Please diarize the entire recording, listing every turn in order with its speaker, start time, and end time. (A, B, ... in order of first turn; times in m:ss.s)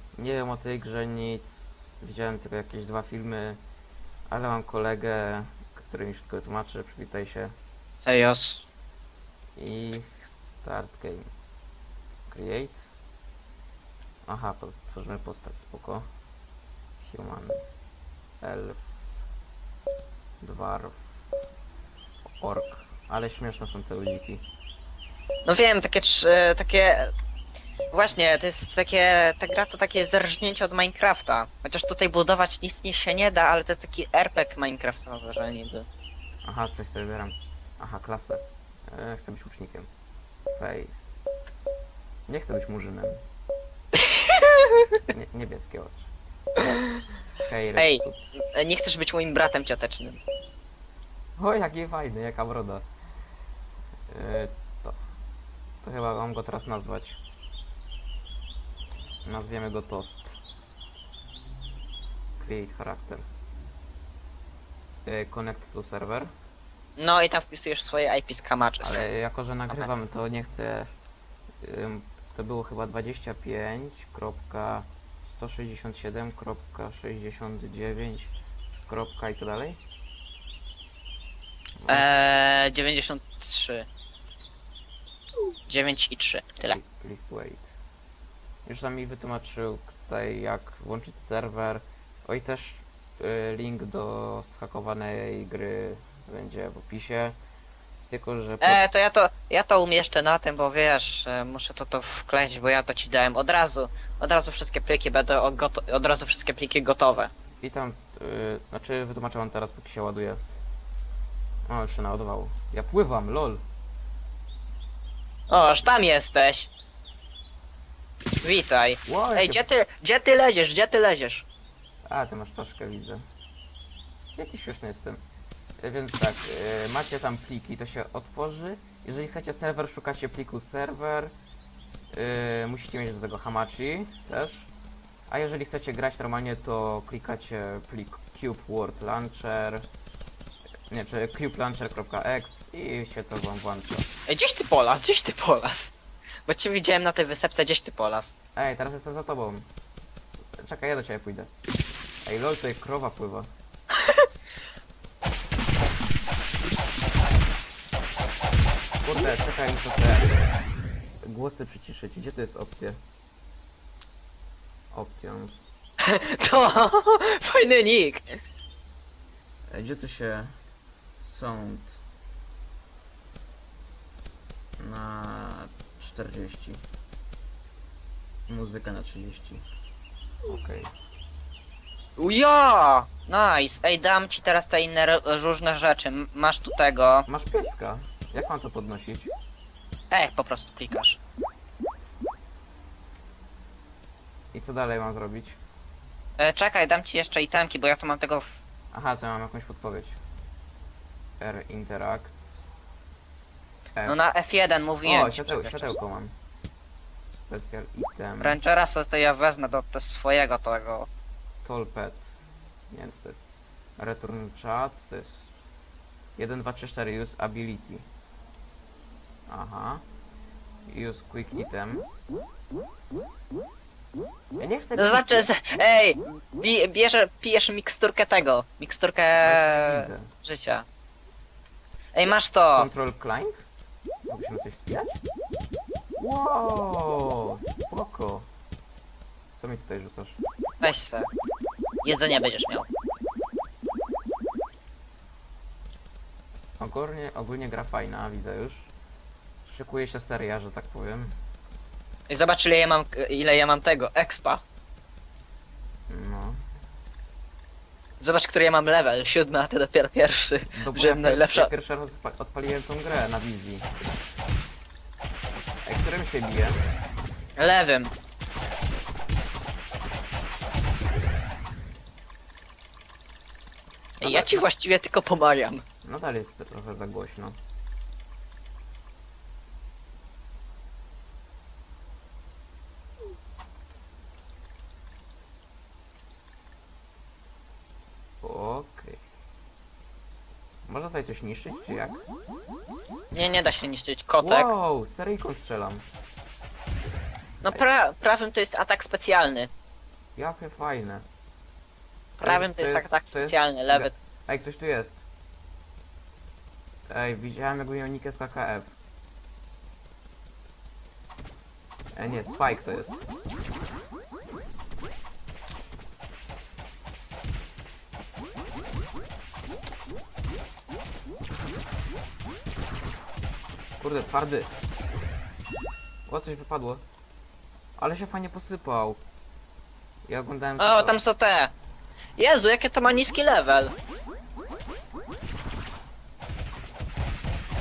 0:00.2-0:03.6 A
0:04.3-0:07.5 A
0:08.0-0:08.7 B
0:09.6-0:11.3 A
0:12.3-0:12.9 A
0:14.3-0:16.0 A
0:17.0-0:17.6 A
0:18.4-0:19.0 A
0:20.4-0:21.1 A
0:22.4-0:24.4 A
0:25.4-0:27.1 B
0:27.9-0:35.9 B
0:36.4-0:39.9 A
0:40.5-0:41.3 A
0:42.3-0:43.2 A
0:44.0-0:44.8 B
0:45.1-0:46.1 A
0:47.4-0:48.2 A
0:47.8-0:48.0 B
0:48.5-0:50.2 B
0:51.4-0:52.8 A
0:54.1-0:55.0 A
0:55.8-0:57.2 A
0:59.2-1:00.3 A
1:02.4-1:03.2 A
1:05.0-1:06.3 A
1:07.0-1:09.0 B
1:08.8-1:10.9 A
1:11.6-1:19.8 A
1:21.8-1:22.1 A
1:21.9-1:23.9 B
1:25.7-1:26.8 B
1:26.6-1:27.7 A
1:28.6-1:37.4 A
1:38.1-1:38.8 A
1:38.6-1:47.3 B
1:47.6-1:50.4 A
1:51.7-1:53.6 A
1:55.5-1:56.7 B
1:58.4-2:01.4 B
1:59.0-1:59.6 A
2:02.0-2:03.2 A
2:04.4-2:05.2 A
2:05.8-2:11.3 A
2:12.1-2:14.7 A
2:15.3-2:19.8 A
2:20.9-2:24.1 A
2:24.3-2:25.9 B
2:26.5-2:28.3 B
2:28.6-2:29.7 A
2:30.6-2:31.5 A
2:32.2-2:33.5 A
2:39.0-2:40.3 A
2:41.2-2:43.0 A
2:44.9-2:45.7 A
2:46.0-2:48.2 B
2:49.7-2:50.5 A
2:51.2-2:52.0 A
2:54.8-2:56.8 A
2:58.5-2:59.6 A
3:00.4-3:00.9 A
3:02.2-3:07.3 B
3:07.3-3:09.3 A
3:10.1-3:11.2 B
3:14.5-3:15.6 A
3:16.4-3:18.6 B
3:18.9-3:20.2 A
3:21.4-3:22.4 A
3:24.0-3:24.2 A
3:24.0-3:25.9 B
3:25.0-3:26.3 A
3:27.5-3:28.6 A
3:28.4-3:31.1 B
3:31.6-3:32.3 A
3:32.9-3:33.4 A
3:34.0-3:35.5 A
3:36.4-3:38.1 A
3:39.5-3:40.0 A
3:40.9-3:42.1 A
3:44.6-3:45.5 A
3:45.0-3:50.8 B
3:49.4-3:50.3 A
3:52.1-3:52.9 B
3:52.7-3:53.6 A
3:54.3-3:55.2 A
3:56.2-3:58.5 A
3:59.6-4:00.4 A
4:00.8-4:01.3 B
4:02.0-4:02.9 B
4:06.8-4:08.9 A
4:09.6-4:11.3 A
4:12.3-4:14.6 B
4:16.1-4:16.6 A
4:18.2-4:21.7 B
4:20.7-4:23.9 A
4:25.8-4:26.8 A
4:27.6-4:28.1 B
4:34.2-4:35.8 B
4:34.2-4:34.6 A
4:36.0-4:37.6 A
4:48.4-4:49.2 A
4:50.8-4:52.2 A
4:53.3-4:54.7 B
4:54.4-4:56.0 A
4:57.6-4:59.7 B
5:00.4-5:01.2 A
5:02.4-5:04.2 B
5:02.4-5:05.2 A
5:07.1-5:08.9 A
5:12.1-5:13.2 A
5:24.0-5:24.7 A
5:26.3-5:27.0 A
5:28.0-5:29.2 A
5:30.3-5:31.2 A
5:30.8-5:31.7 B
5:32.4-5:33.9 B